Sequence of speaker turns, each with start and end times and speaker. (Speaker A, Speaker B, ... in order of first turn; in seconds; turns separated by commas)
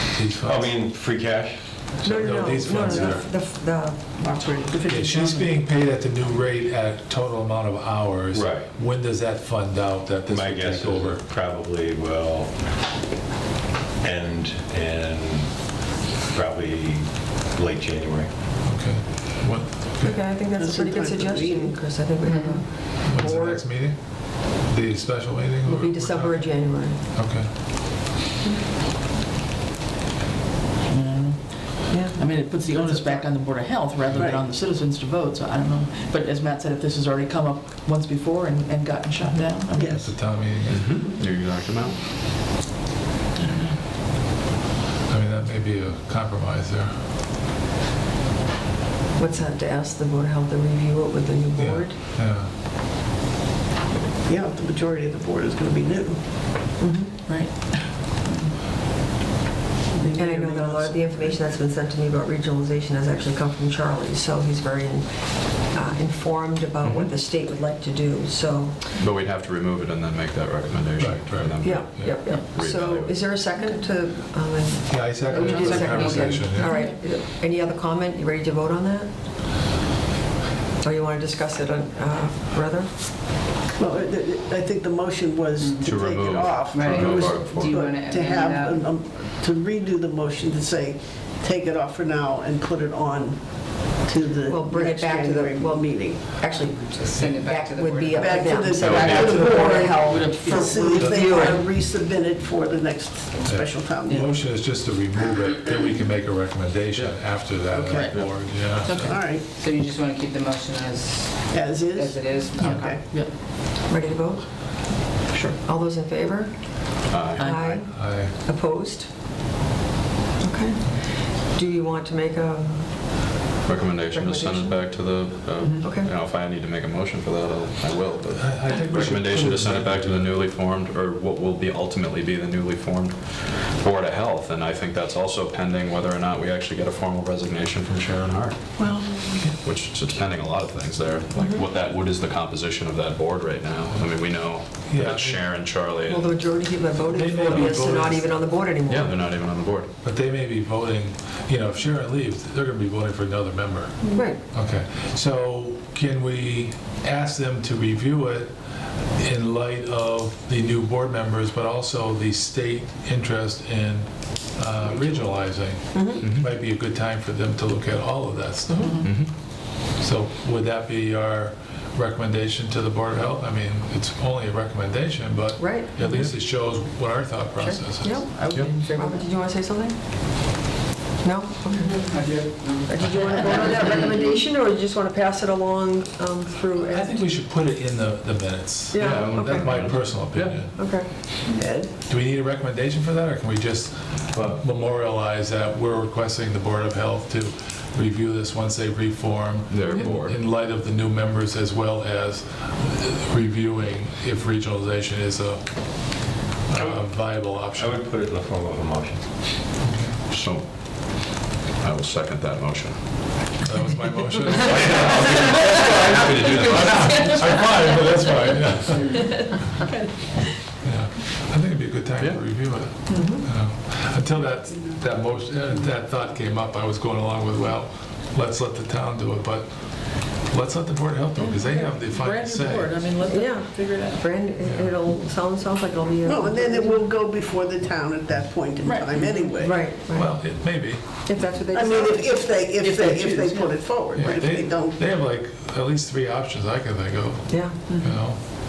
Speaker A: 0.1-0.7, Speaker B: 0.4-1.8, Speaker A: 2.0-3.3, Speaker C: 2.0-4.2, Speaker D: 2.8-3.2, Speaker D: 4.2-5.5, Speaker A: 4.9-11.2, Speaker B: 8.3-8.7, Speaker B: 10.3-12.7, Speaker B: 14.0-15.6, Speaker B: 16.3-18.3, Speaker A: 18.6-20.3, Speaker C: 20.0-23.6, Speaker D: 20.5-21.8, Speaker E: 22.2-22.7, Speaker A: 23.1-27.6, Speaker C: 25.6-27.0, Speaker F: 30.9-40.1, Speaker C: 31.9-32.5, Speaker D: 34.1-34.4, Speaker D: 39.8-40.1, Speaker A: 39.9-40.9, Speaker G: 40.7-42.0, Speaker G: 43.4-43.7, Speaker A: 45.1-46.9, Speaker C: 49.2-52.0, Speaker A: 51.6-52.5, Speaker D: 54.2-56.2, Speaker C: 56.8-57.2, Speaker F: 57.2-58.5, Speaker D: 59.9-61.4, Speaker C: 60.1-69.0, Speaker G: 66.8-67.1, Speaker G: 69.0-73.3, Speaker A: 71.0-72.2, Speaker C: 71.6-79.1, Speaker A: 74.9-76.8, Speaker E: 75.3-76.5, Speaker F: 76.6-77.0, Speaker C: 80.8-83.1, Speaker D: 83.8-96.3, Speaker E: 85.6-86.0, Speaker G: 85.8-87.8, Speaker E: 86.7-88.8, Speaker C: 94.5-101.6, Speaker E: 96.9-98.9, Speaker D: 98.2-104.3, Speaker G: 98.8-99.6, Speaker E: 100.0-100.5, Speaker A: 103.5-109.1, Speaker F: 107.7-109.2, Speaker D: 109.0-109.5, Speaker E: 109.5-113.2, Speaker D: 111.5-112.2, Speaker F: 112.6-113.3, Speaker D: 112.8-113.1, Speaker C: 113.9-119.1, Speaker G: 117.1-117.8, Speaker F: 117.4-117.8, Speaker A: 117.9-118.3, Speaker C: 120.4-123.4, Speaker G: 123.7-138.9, Speaker C: 124.1-124.8, Speaker C: 125.8-126.1, Speaker A: 128.3-130.3, Speaker D: 138.8-139.4, Speaker G: 139.6-146.5, Speaker C: 141.4-141.7, Speaker A: 144.8-145.4, Speaker C: 146.1-149.2, Speaker A: 147.0-148.4, Speaker G: 148.9-149.9, Speaker A: 150.0-158.5, Speaker C: 154.1-154.4, Speaker A: 159.2-169.1, Speaker C: 165.9-166.2, Speaker G: 166.2-166.5, Speaker F: 168.7-169.1, Speaker G: 169.0-169.3, Speaker A: 170.0-178.2, Speaker C: 175.6-176.1, Speaker C: 177.6-179.9, Speaker F: 178.3-179.3, Speaker C: 181.2-182.2, Speaker E: 181.9-184.1, Speaker C: 182.9-187.2, Speaker A: 183.0-183.4, Speaker A: 186.8-190.8, Speaker C: 188.9-189.8, Speaker G: 189.0-190.6, Speaker C: 190.7-191.1, Speaker D: 191.5-191.9, Speaker A: 192.1-208.0, Speaker G: 199.7-200.4, Speaker B: 207.8-209.4, Speaker A: 209.8-210.2, Speaker G: 210.3-213.3, Speaker A: 213.6-219.7, Speaker B: 214.6-217.7, Speaker A: 220.8-233.0, Speaker F: 223.1-223.4, Speaker F: 231.4-234.4, Speaker C: 233.2-237.0, Speaker A: 234.6-235.0, Speaker D: 236.2-239.8, Speaker F: 238.8-239.6, Speaker C: 239.6-240.8, Speaker A: 240.1-241.1, Speaker C: 241.3-242.3, Speaker D: 241.7-245.0, Speaker F: 242.8-243.8, Speaker A: 244.2-248.4, Speaker C: 247.5-247.8, Speaker F: 247.9-248.2